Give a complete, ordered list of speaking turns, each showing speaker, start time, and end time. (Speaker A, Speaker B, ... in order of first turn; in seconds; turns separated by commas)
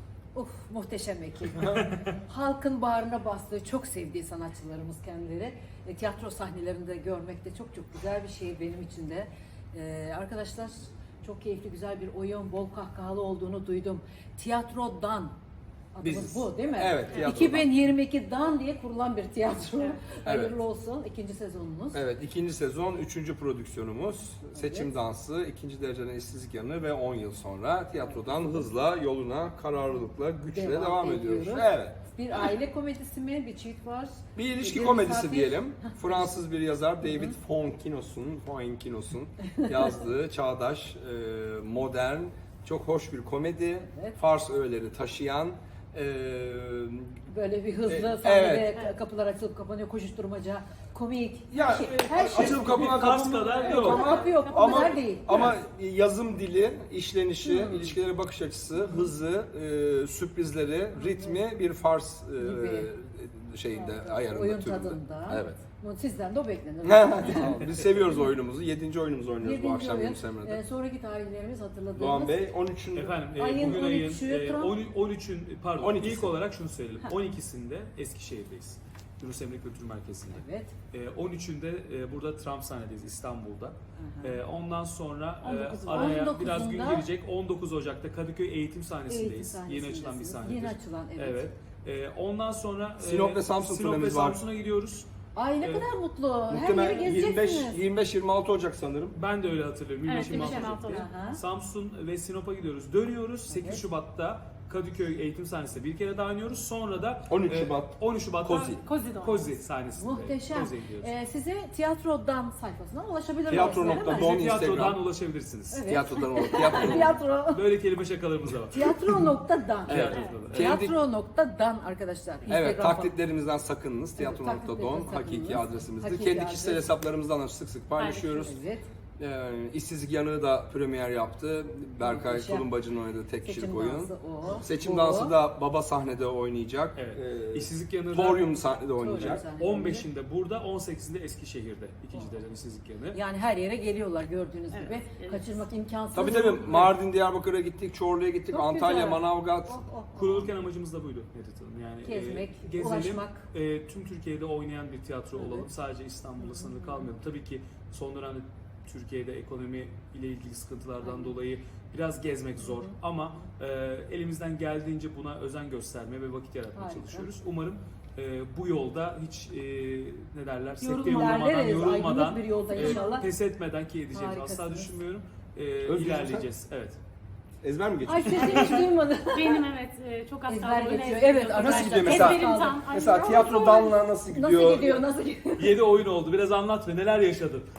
Speaker A: 0.3-15.3, Speaker A: 15.9-22.0, Speaker B: 16.0-17.7, Speaker B: 20.2-20.6, Speaker B: 21.9-32.0, Speaker A: 24.5-24.9, Speaker A: 28.0-28.5, Speaker A: 30.5-36.3, Speaker B: 34.3-47.2, Speaker A: 37.0-37.3, Speaker A: 39.6-39.9, Speaker A: 43.9-44.2, Speaker A: 47.3-55.5, Speaker B: 47.9-48.7, Speaker B: 51.5-65.6, Speaker C: 51.8-54.1, Speaker D: 53.7-54.9, Speaker A: 57.4-57.9, Speaker A: 61.0-61.4, Speaker A: 62.4-62.9, Speaker A: 64.0-67.6, Speaker B: 66.8-70.6, Speaker A: 69.4-72.4, Speaker B: 72.0-73.1, Speaker C: 72.9-95.1, Speaker A: 73.3-74.8, Speaker B: 75.8-76.3, Speaker A: 80.3-80.7, Speaker A: 84.0-84.4, Speaker D: 85.4-86.3, Speaker A: 85.8-87.1, Speaker A: 89.1-91.5, Speaker B: 93.0-94.4, Speaker A: 95.3-97.8, Speaker B: 96.5-99.2, Speaker C: 99.1-111.1, Speaker D: 100.1-101.0, Speaker A: 100.2-101.4, Speaker A: 103.5-103.9, Speaker B: 107.3-108.8, Speaker D: 108.6-109.4, Speaker A: 110.0-114.4, Speaker B: 113.5-115.0, Speaker C: 113.6-116.0, Speaker A: 115.7-117.6, Speaker B: 115.9-117.2, Speaker C: 116.7-119.1, Speaker A: 118.7-123.1, Speaker C: 119.9-120.8, Speaker B: 119.9-121.0, Speaker D: 120.1-120.4, Speaker B: 122.5-128.6, Speaker A: 124.2-126.8, Speaker D: 128.0-128.5, Speaker A: 128.4-128.9, Speaker B: 129.2-139.4, Speaker A: 132.0-132.7, Speaker A: 133.4-135.3, Speaker C: 136.9-138.6, Speaker A: 138.9-140.1, Speaker C: 139.2-143.2, Speaker A: 143.1-146.9, Speaker D: 144.7-145.6, Speaker B: 146.1-149.8, Speaker A: 148.5-150.5, Speaker C: 150.1-177.0, Speaker A: 152.0-153.4, Speaker A: 155.3-155.7, Speaker A: 156.4-157.1, Speaker A: 161.0-161.3, Speaker A: 162.6-163.0, Speaker A: 166.7-167.3, Speaker D: 170.8-171.7, Speaker A: 171.0-173.3, Speaker D: 172.8-173.1, Speaker A: 174.1-174.9, Speaker B: 175.9-176.5, Speaker B: 177.6-178.9, Speaker A: 178.1-179.6, Speaker D: 179.3-183.9, Speaker A: 180.5-182.8, Speaker B: 181.6-185.0, Speaker A: 184.3-185.8, Speaker C: 185.6-187.7